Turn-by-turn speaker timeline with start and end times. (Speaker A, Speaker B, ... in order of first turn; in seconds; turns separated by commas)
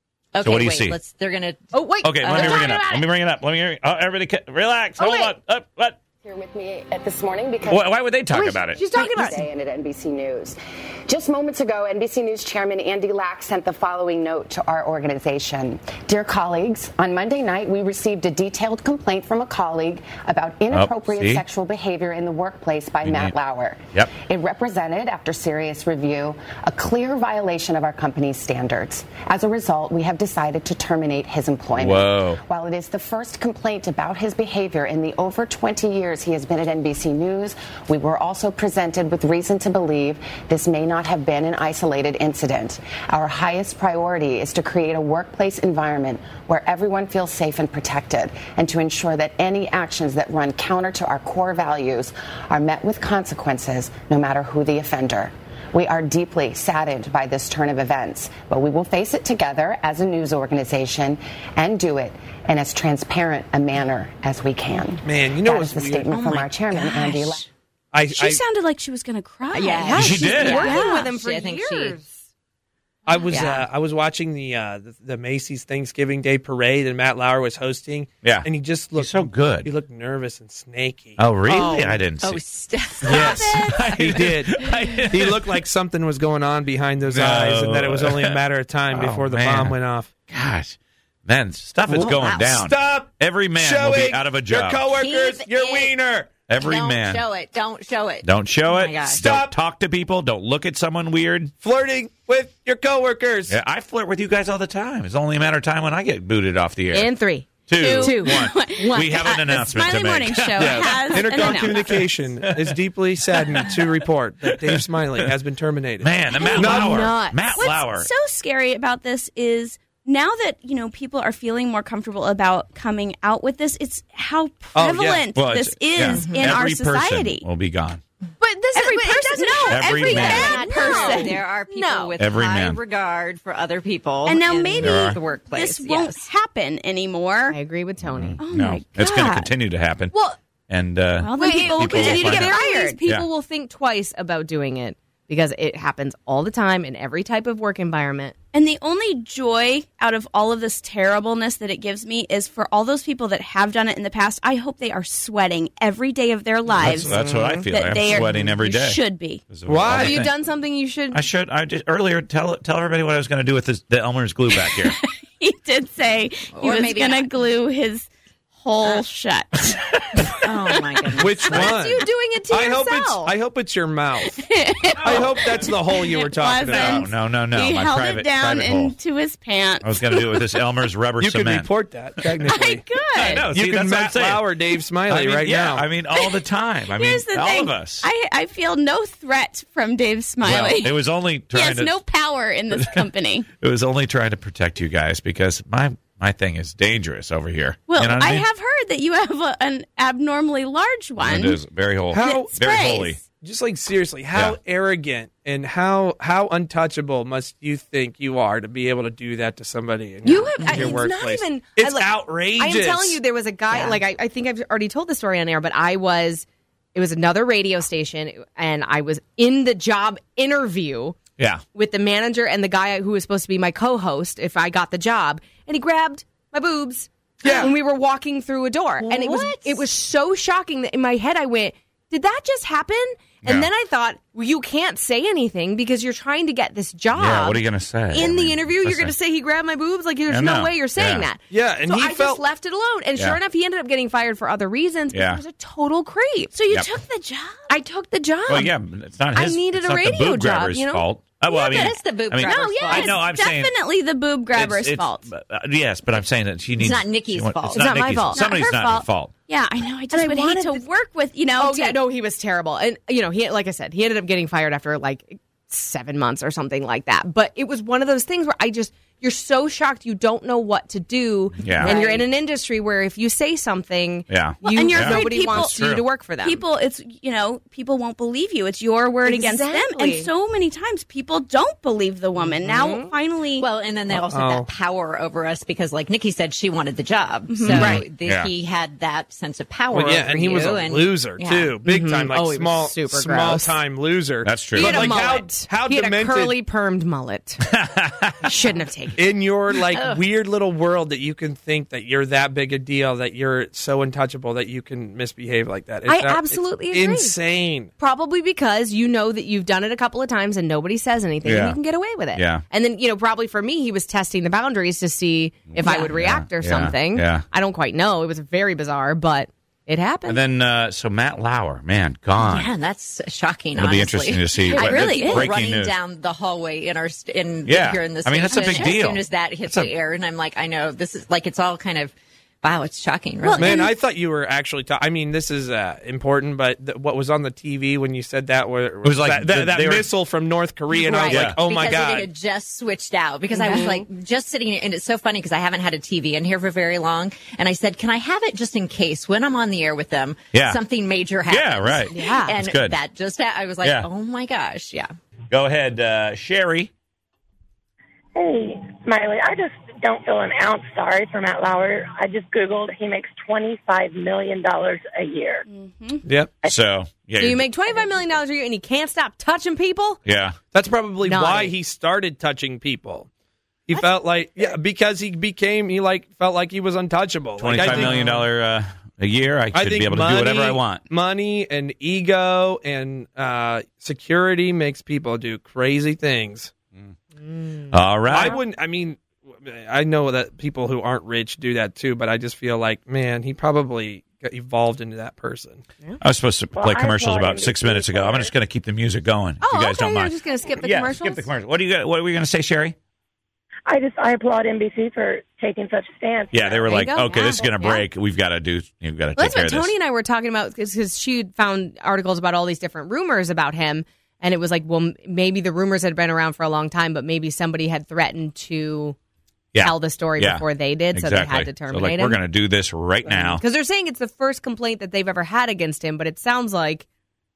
Speaker A: 0.3-2.7, Speaker B: 0.4-1.0, Speaker C: 1.7-3.1, Speaker B: 2.0-6.0, Speaker C: 5.0-5.3, Speaker D: 6.2-7.9, Speaker B: 7.7-8.8, Speaker C: 8.3-9.4, Speaker D: 8.8-67.4, Speaker B: 20.7-21.4, Speaker B: 23.0-23.3, Speaker B: 31.7-32.4, Speaker E: 65.0-66.1, Speaker A: 66.1-67.5, Speaker E: 67.9-68.4, Speaker F: 68.1-71.1, Speaker A: 69.5-72.0, Speaker C: 69.8-72.2, Speaker B: 70.0-70.6, Speaker E: 73.1-81.9, Speaker A: 73.3-73.7, Speaker B: 78.2-79.7, Speaker B: 81.2-82.4, Speaker A: 81.5-83.5, Speaker F: 83.0-83.9, Speaker E: 83.0-90.1, Speaker B: 83.1-85.6, Speaker B: 87.1-89.7, Speaker B: 90.2-94.9, Speaker A: 91.9-92.6, Speaker E: 92.4-96.4, Speaker A: 94.9-95.9, Speaker B: 96.5-97.2, Speaker A: 96.6-99.3, Speaker B: 98.2-101.5, Speaker E: 99.0-99.6, Speaker E: 101.6-103.5, Speaker B: 103.5-107.1, Speaker C: 106.9-109.8, Speaker B: 107.7-110.8, Speaker F: 107.7-112.1, Speaker E: 110.5-117.0, Speaker C: 111.3-111.7, Speaker B: 113.3-113.9, Speaker B: 114.5-115.3, Speaker B: 116.0-118.1, Speaker F: 116.3-117.0, Speaker C: 116.6-117.4, Speaker F: 117.5-127.4, Speaker E: 124.7-125.4, Speaker B: 125.3-128.0, Speaker A: 126.1-126.5, Speaker C: 128.4-132.2, Speaker F: 128.7-131.4, Speaker B: 129.7-130.6, Speaker A: 130.1-136.3, Speaker B: 132.2-132.8, Speaker F: 134.2-137.6, Speaker B: 134.8-135.2, Speaker C: 137.5-138.4, Speaker B: 138.0-140.2, Speaker F: 138.4-139.5, Speaker C: 140.1-140.4, Speaker B: 140.7-143.3, Speaker F: 141.2-143.0, Speaker C: 141.3-148.3, Speaker F: 148.5-159.4, Speaker B: 156.8-160.3, Speaker E: 157.0-157.5, Speaker E: 159.7-160.1, Speaker C: 159.8-161.3, Speaker B: 161.1-164.9, Speaker F: 165.0-171.3, Speaker A: 166.5-167.3, Speaker A: 170.4-171.7, Speaker E: 171.2-174.4, Speaker C: 171.5-173.3, Speaker F: 174.2-180.4, Speaker E: 175.0-177.1, Speaker B: 176.6-178.9, Speaker B: 179.8-182.3, Speaker E: 181.2-185.9, Speaker F: 182.4-183.5, Speaker B: 183.2-184.5, Speaker B: 185.1-188.1, Speaker F: 186.1-193.5, Speaker B: 190.4-192.0, Speaker B: 192.7-193.1, Speaker B: 193.6-198.5, Speaker F: 197.9-201.6, Speaker B: 201.2-203.2, Speaker E: 202.1-213.2, Speaker F: 202.2-203.2, Speaker C: 210.2-221.2, Speaker A: 213.7-214.0, Speaker B: 221.4-221.6, Speaker C: 221.7-246.6, Speaker E: 227.4-227.7, Speaker A: 227.4-227.7, Speaker A: 229.0-229.8, Speaker B: 233.4-233.7, Speaker B: 237.1-239.1, Speaker B: 240.3-241.3, Speaker E: 241.5-242.4, Speaker B: 243.1-243.4, Speaker B: 245.1-245.4, Speaker F: 246.5-247.7, Speaker C: 247.7-248.7, Speaker B: 248.5-253.7, Speaker C: 249.3-251.0, Speaker F: 251.5-255.2, Speaker A: 251.6-253.1, Speaker B: 254.5-259.3, Speaker A: 256.8-257.9, Speaker C: 257.7-258.5, Speaker F: 258.3-262.0, Speaker C: 260.1-260.9, Speaker C: 261.6-276.6, Speaker B: 271.6-272.0, Speaker A: 271.7-272.3, Speaker B: 274.3-276.0, Speaker F: 274.6-275.8, Speaker F: 276.4-283.6, Speaker C: 279.2-280.3, Speaker C: 282.4-283.1, Speaker A: 283.6-291.8, Speaker E: 284.1-284.7, Speaker F: 287.5-287.9, Speaker C: 287.6-288.0, Speaker B: 287.7-288.5, Speaker E: 289.9-296.6, Speaker C: 291.8-293.8, Speaker B: 294.4-295.0, Speaker C: 294.7-297.6, Speaker B: 297.6-298.5, Speaker C: 298.4-299.3, Speaker E: 299.2-307.9, Speaker A: 299.9-300.2, Speaker C: 306.1-307.4, Speaker C: 308.0-320.4, Speaker B: 311.4-311.8, Speaker B: 312.3-312.6, Speaker B: 315.7-317.4, Speaker A: 315.8-316.1, Speaker B: 320.2-322.7, Speaker A: 322.4-333.9, Speaker B: 323.8-325.9, Speaker F: 324.7-325.5, Speaker C: 324.7-325.0, Speaker B: 327.6-329.9, Speaker F: 333.4-334.0, Speaker E: 333.6-342.3, Speaker B: 339.0-340.1, Speaker A: 340.9-355.1, Speaker B: 341.3-341.6, Speaker C: 343.5-344.0, Speaker B: 350.5-350.8, Speaker B: 351.5-353.0, Speaker C: 352.1-352.6, Speaker B: 353.8-354.1, Speaker B: 355.5-356.9, Speaker G: 358.3-365.6, Speaker F: 365.7-366.2, Speaker E: 366.2-366.6, Speaker B: 366.6-367.7, Speaker C: 367.4-370.2, Speaker B: 370.2-370.6, Speaker E: 370.7-373.3, Speaker C: 371.2-371.7, Speaker E: 373.9-378.4, Speaker C: 373.9-374.7, Speaker B: 377.6-381.1, Speaker C: 377.7-378.4, Speaker E: 379.7-386.7, Speaker C: 387.4-387.8, Speaker B: 387.9-388.6, Speaker E: 388.2-395.9, Speaker B: 396.2-402.9, Speaker G: 396.7-398.5, Speaker C: 399.6-401.5, Speaker G: 403.9-406.9, Speaker B: 406.5-409.9, Speaker C: 406.8-408.1, Speaker C: 409.3-419.1, Speaker B: 419.7-423.6, Speaker C: 419.8-422.4, Speaker C: 423.2-427.1